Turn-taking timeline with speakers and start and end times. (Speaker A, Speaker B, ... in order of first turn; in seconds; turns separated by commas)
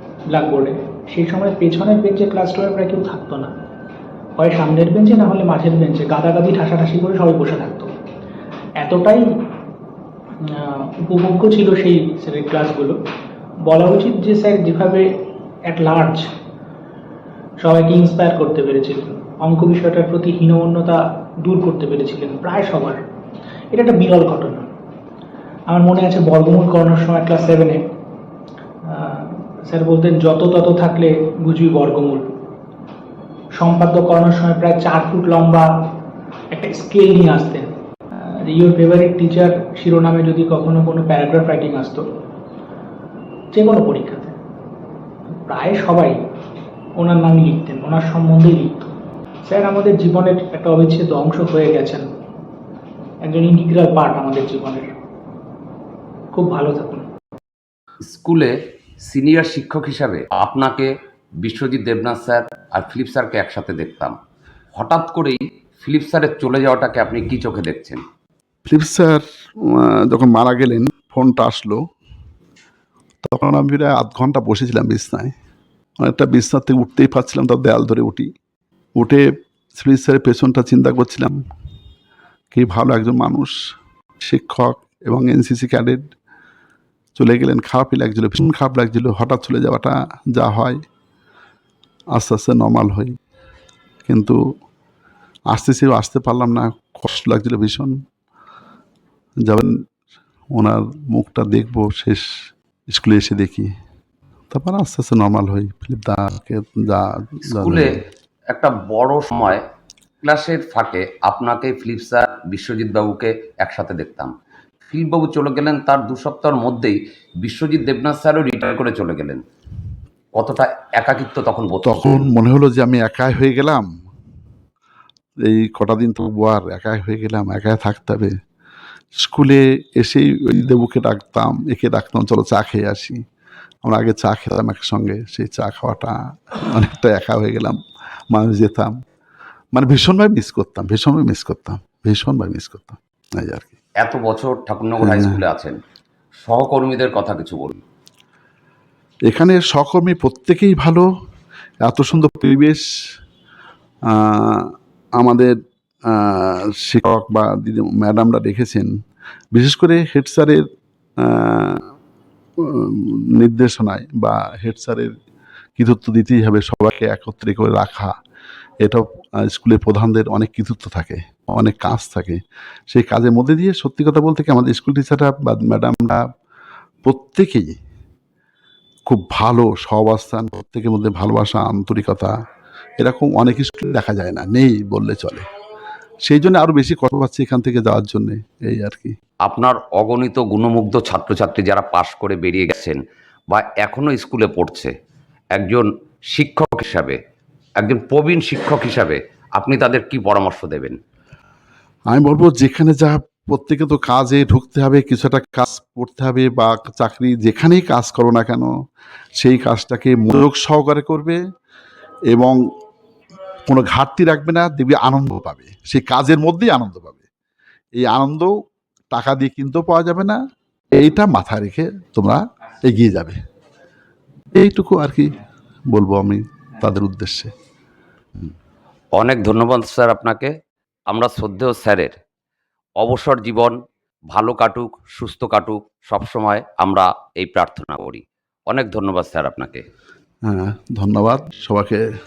Speaker A: 0.3-3.5, Speaker A: 4.4-7.9, Speaker A: 8.8-9.3, Speaker A: 10.4-13.0, Speaker A: 13.7-15.1, Speaker A: 15.7-16.3, Speaker A: 17.6-23.0, Speaker A: 23.7-24.7, Speaker A: 25.7-27.8, Speaker A: 28.8-32.2, Speaker A: 33.6-35.9, Speaker A: 36.5-42.0, Speaker A: 43.5-44.4, Speaker A: 45.5-46.2, Speaker A: 47.0-48.9, Speaker A: 49.5-52.1, Speaker A: 53.2-54.9, Speaker A: 56.3-57.1, Speaker B: 58.0-58.5, Speaker B: 59.1-60.9, Speaker B: 61.4-64.2, Speaker B: 64.8-68.0, Speaker C: 68.7-71.8, Speaker C: 73.2-75.3, Speaker C: 76.0-78.3, Speaker C: 79.0-79.2, Speaker C: 79.8-81.4, Speaker C: 82.5-83.5, Speaker C: 84.2-86.1, Speaker C: 87.2-90.8, Speaker C: 92.2-93.2, Speaker C: 94.1-94.4, Speaker C: 95.5-98.0, Speaker C: 99.5-99.7, Speaker C: 100.5-102.2, Speaker C: 102.9-103.7, Speaker C: 104.5-108.0, Speaker B: 107.5-108.0, Speaker B: 108.5-109.6, Speaker B: 110.2-114.3, Speaker B: 114.9-119.4, Speaker B: 120.4-122.3, Speaker C: 121.8-123.8, Speaker C: 125.4-128.3, Speaker C: 129.2-133.2, Speaker C: 133.8-137.8, Speaker C: 138.3-138.9, Speaker C: 139.7-143.8, Speaker B: 144.0-145.8, Speaker C: 145.0-145.4, Speaker B: 146.4-147.8, Speaker C: 149.3-151.1, Speaker C: 151.8-152.8, Speaker C: 154.1-155.5, Speaker C: 156.1-158.9, Speaker C: 159.5-160.6, Speaker C: 161.2-161.9, Speaker C: 162.6-165.1, Speaker C: 165.8-168.1, Speaker C: 168.8-176.2, Speaker C: 177.1-177.7, Speaker C: 179.1-182.3, Speaker C: 183.0-185.4, Speaker C: 186.2-189.2, Speaker B: 189.5-193.0, Speaker B: 193.5-194.9, Speaker B: 195.6-197.2, Speaker B: 197.8-200.9, Speaker C: 202.1-208.7, Speaker C: 209.4-211.4, Speaker C: 212.3-212.6, Speaker C: 213.7-217.2, Speaker C: 217.9-218.5, Speaker C: 219.1-220.4, Speaker C: 220.9-223.4, Speaker C: 224.6-225.3, Speaker C: 225.9-227.5, Speaker B: 229.2-230.5, Speaker B: 231.1-232.1, Speaker B: 233.0-233.8, Speaker B: 234.3-239.8, Speaker C: 240.4-242.0